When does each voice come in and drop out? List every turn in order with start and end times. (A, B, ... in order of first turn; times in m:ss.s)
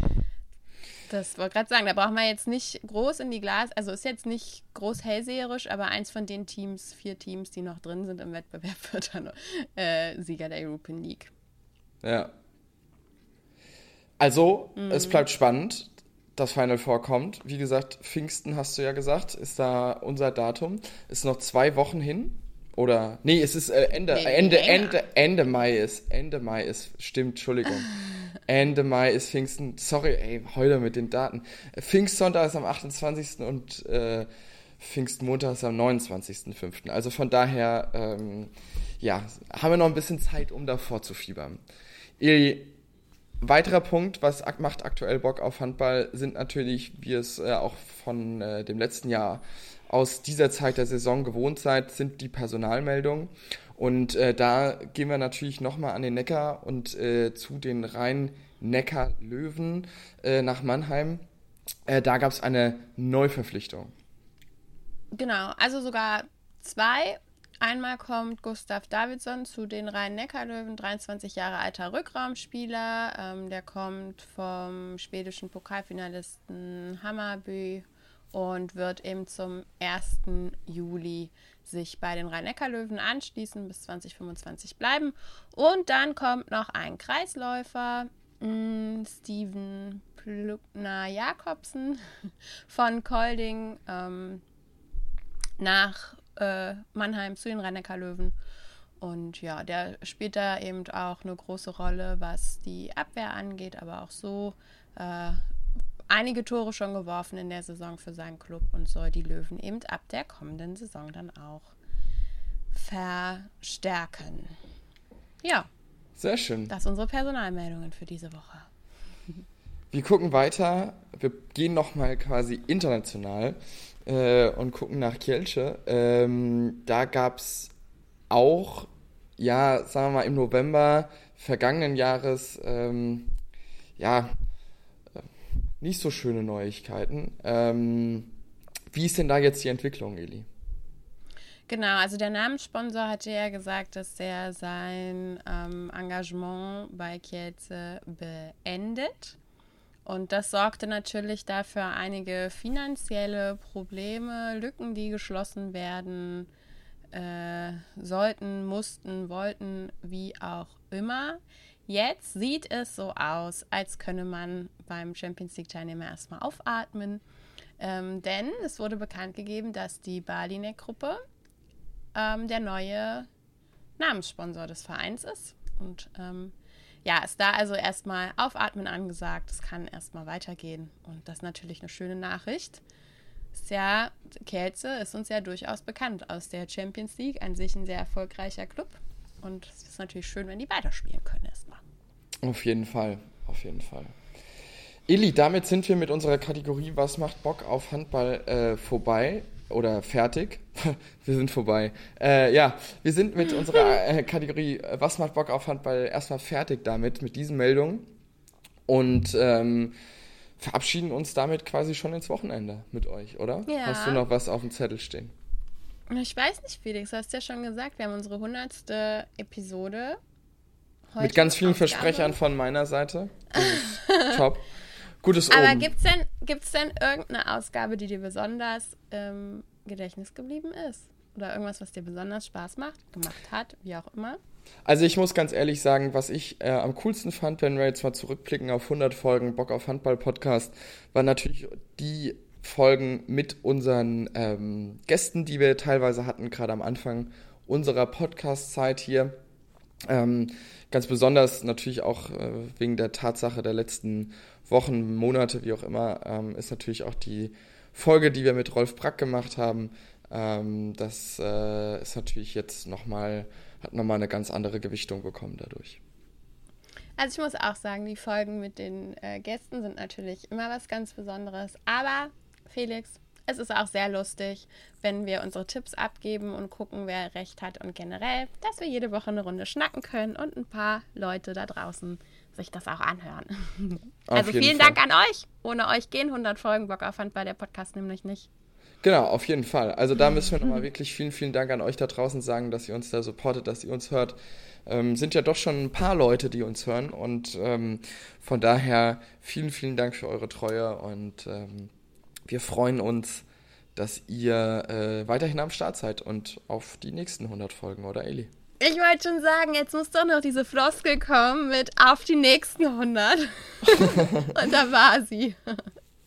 0:01.1-0:11.3 A
0:12.0-0:12.3 B
0:14.2-0:27.9 B
0:14.8-0:15.3 A
0:24.1-0:25.0 A
0:28.4-0:34.3 B
0:34.8-0:41.6 B
0:42.2-0:42.7 B
0:43.4-1:01.2 B
1:01.9-1:03.9 B
1:05.1-1:32.0 A
1:32.7-1:34.4 A
1:35.6-1:38.4 A
1:39.0-1:45.4 A
1:46.1-1:51.7 A
1:52.7-1:54.5 A
1:55.4-1:55.7 A
1:56.2-1:56.7 B
1:56.7-1:58.7 A
1:59.9-2:07.7 B
2:08.3-2:13.3 B
2:14.0-2:14.3 B
2:15.8-2:18.3 B
2:18.9-2:20.5 B
2:21.7-2:29.4 A
2:30.0-2:36.5 A
2:37.1-2:47.2 A
2:47.8-2:51.2 A
2:52.1-2:53.3 A
2:54.0-2:56.5 A
2:57.0-3:02.8 A
3:03.5-3:11.8 A
3:12.4-3:14.1 B
3:15.1-3:28.1 B
3:28.9-3:30.0 B
3:30.6-3:35.3 B
3:33.6-3:34.2 A
3:36.1-3:40.2 A
3:41.1-3:42.4 A
3:41.2-3:44.6 B
3:43.6-3:44.4 A
3:45.2-3:45.9 B
3:45.5-3:54.4 A
3:54.8-4:09.3 B
4:10.1-4:26.0 B
4:27.2-4:48.5 A
4:44.3-4:45.0 B
4:49.0-5:01.9 B
5:02.5-5:03.4 B
5:03.9-5:08.5 B
5:08.8-5:15.8 A
5:13.9-5:14.2 B